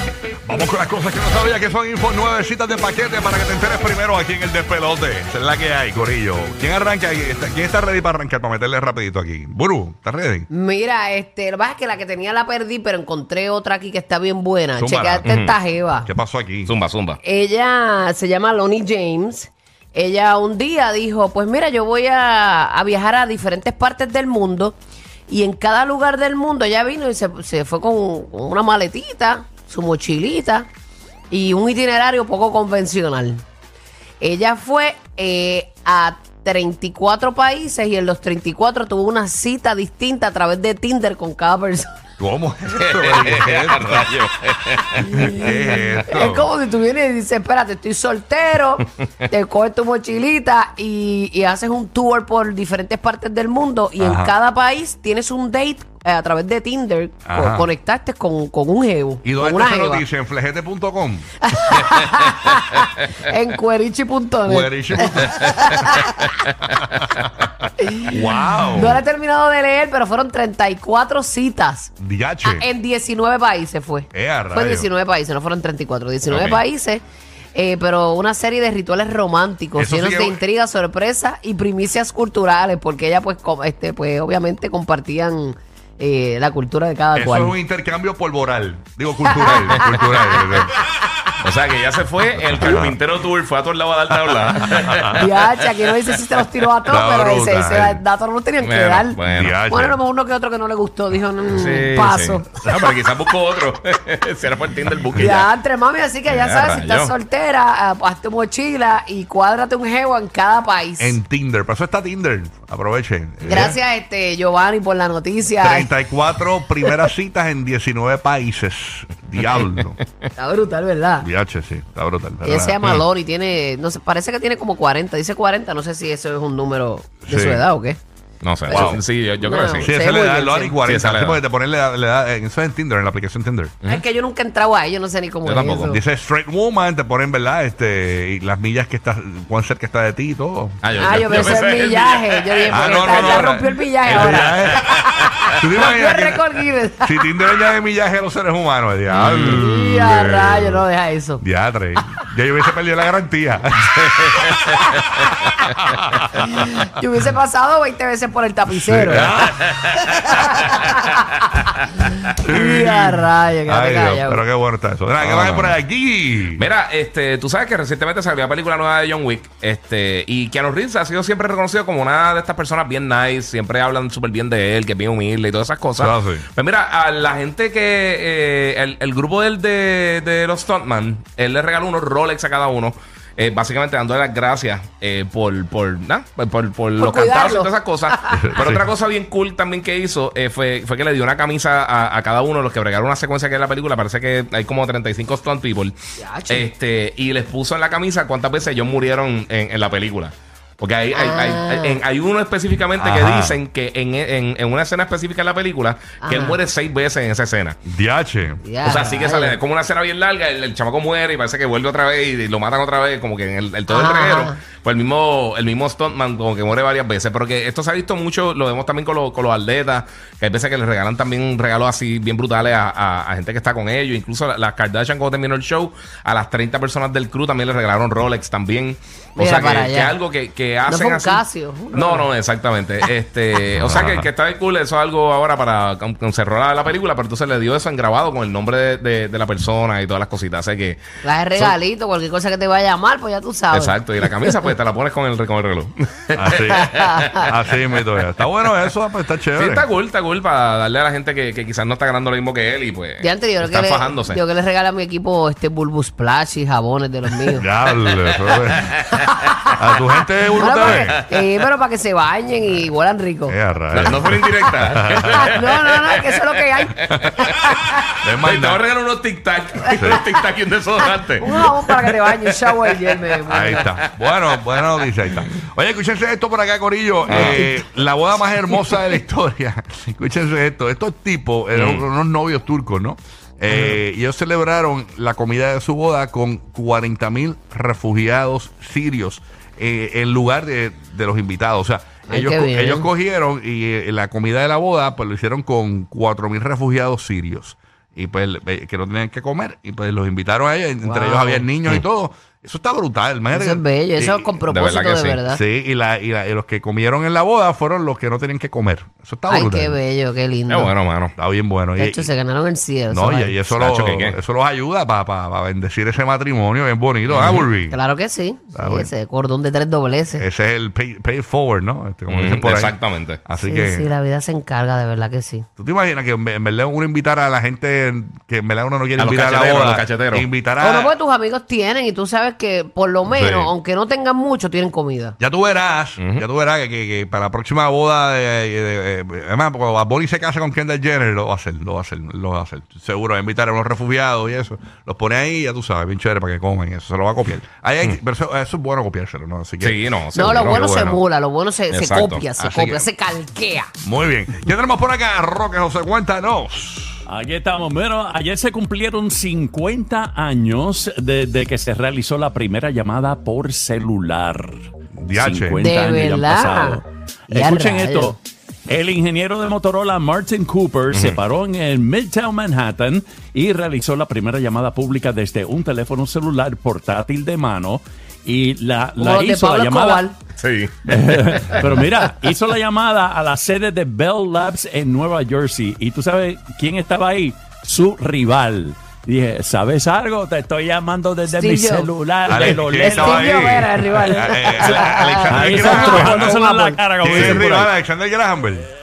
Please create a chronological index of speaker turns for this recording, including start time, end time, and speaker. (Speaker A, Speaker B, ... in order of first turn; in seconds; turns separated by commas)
Speaker A: 0.5-10.5, Speaker B: 10.5-16.1, Speaker A: 14.8-15.3, Speaker C: 15.2-15.6, Speaker A: 16.0-16.7, Speaker C: 16.7-17.2, Speaker B: 17.2-24.8, Speaker B: 25.3-30.7, Speaker B: 31.3-33.4, Speaker B: 34.2-41.9, Speaker A: 42.2-44.2, Speaker C: 42.8-45.5, Speaker B: 45.0-60.0, Speaker A: 45.1-46.5, Speaker C: 46.0-46.5, Speaker A: 54.0-54.3, Speaker A: 57.3-57.7, Speaker A: 59.2-61.9, Speaker B: 61.4-66.5, Speaker A: 64.4-66.1, Speaker B: 67.8-71.9, Speaker A: 68.1-69.0, Speaker A: 72.0-72.7, Speaker B: 72.4-77.0, Speaker A: 74.1-74.9, Speaker C: 76.3-76.6, Speaker B: 77.5-87.6, Speaker A: 79.8-80.4, Speaker A: 87.2-90.8, Speaker B: 89.2-90.7, Speaker C: 89.9-90.2, Speaker C: 91.4-95.2, Speaker A: 92.3-93.0, Speaker A: 94.8-95.2, Speaker B: 95.1-102.5, Speaker A: 96.8-98.0, Speaker C: 98.6-99.6, Speaker A: 99.3-100.0, Speaker C: 101.5-105.5, Speaker B: 105.2-111.2, Speaker C: 106.3-107.1, Speaker A: 111.0-113.8, Speaker B: 113.4-115.9, Speaker C: 113.5-113.8, Speaker A: 115.6-120.0, Speaker B: 116.8-117.1, Speaker C: 119.5-119.8, Speaker B: 120.4-121.3, Speaker A: 121.2-123.0, Speaker B: 122.4-128.0, Speaker A: 127.3-127.6, Speaker C: 128.4-129.9, Speaker B: 128.7-130.8, Speaker A: 128.7-129.0, Speaker A: 129.8-133.8, Speaker C: 130.8-131.4, Speaker B: 133.9-136.0, Speaker C: 135.4-135.9, Speaker A: 135.8-141.7, Speaker C: 140.8-143.5, Speaker B: 140.9-147.3, Speaker A: 142.7-150.8, Speaker C: 144.1-145.4, Speaker C: 149.1-149.6, Speaker B: 149.4-151.4, Speaker A: 151.4-156.8, Speaker C: 154.0-154.9, Speaker B: 156.3-159.3, Speaker A: 158.8-159.6, Speaker C: 159.1-162.1, Speaker B: 160.1-161.4, Speaker B: 162.2-164.4, Speaker A: 162.4-166.7, Speaker C: 165.2-165.8, Speaker C: 166.6-195.9, Speaker A: 176.0-176.4, Speaker B: 187.0-188.6, Speaker A: 188.3-188.9, Speaker B: 196.2-196.7, Speaker C: 196.5-207.8, Speaker B: 201.1-202.0, Speaker A: 203.0-203.6, Speaker B: 206.2-206.6, Speaker A: 207.8-208.6, Speaker B: 208.6-209.6, Speaker C: 208.8-241.0, Speaker B: 213.9-214.6, Speaker B: 229.4-230.2, Speaker B: 230.8-232.3, Speaker A: 233.8-234.3, Speaker B: 241.2-244.6, Speaker C: 243.7-247.3, Speaker A: 246.3-249.9, Speaker B: 246.7-247.4, Speaker C: 249.6-254.4, Speaker B: 253.2-257.6, Speaker A: 257.5-259.0, Speaker C: 258.2-259.6, Speaker A: 259.8-261.2, Speaker B: 260.6-264.5, Speaker C: 260.6-261.2, Speaker A: 263.5-265.6, Speaker C: 263.9-266.4, Speaker B: 265.3-268.1, Speaker C: 267.1-267.6, Speaker A: 267.1-267.4, Speaker A: 268.2-268.8, Speaker C: 268.2-271.4, Speaker A: 269.9-270.2, Speaker B: 269.9-270.2, Speaker B: 271.3-273.9, Speaker A: 273.4-303.8, Speaker C: 274.2-275.1, Speaker C: 277.3-277.6, Speaker B: 277.3-277.6, Speaker C: 281.7-282.1, Speaker B: 292.3-293.1, Speaker B: 301.0-301.6, Speaker B: 303.5-305.6, Speaker C: 304.2-305.4, Speaker A: 305.4-310.0, Speaker B: 309.5-310.9, Speaker C: 310.7-311.3, Speaker A: 311.4-312.3, Speaker B: 312.0-313.6, Speaker A: 313.1-318.0, Speaker C: 313.7-314.4, Speaker C: 317.3-317.6, Speaker B: 317.9-320.4, Speaker A: 318.7-319.1, Speaker A: 320.4-324.1, Speaker C: 322.3-323.4, Speaker B: 323.6-325.6, Speaker A: 325.8-331.1, Speaker C: 329.2-330.5, Speaker B: 330.8-335.4, Speaker A: 333.3-333.7, Speaker A: 335.4-351.1, Speaker C: 336.2-336.4, Speaker C: 349.8-351.2, Speaker B: 350.3-353.9, Speaker C: 351.9-352.4, Speaker A: 352.6-353.0, Speaker A: 354.0-357.2, Speaker D: 357.3-368.4, Speaker A: 365.1-365.8, Speaker B: 365.8-368.4, Speaker D: 368.9-380.3, Speaker C: 371.1-371.4, Speaker B: 379.2-380.4, Speaker C: 380.6-381.9, Speaker D: 381.1-393.7, Speaker B: 391.4-397.0, Speaker A: 392.4-396.6, Speaker D: 394.8-397.9, Speaker A: 397.2-398.9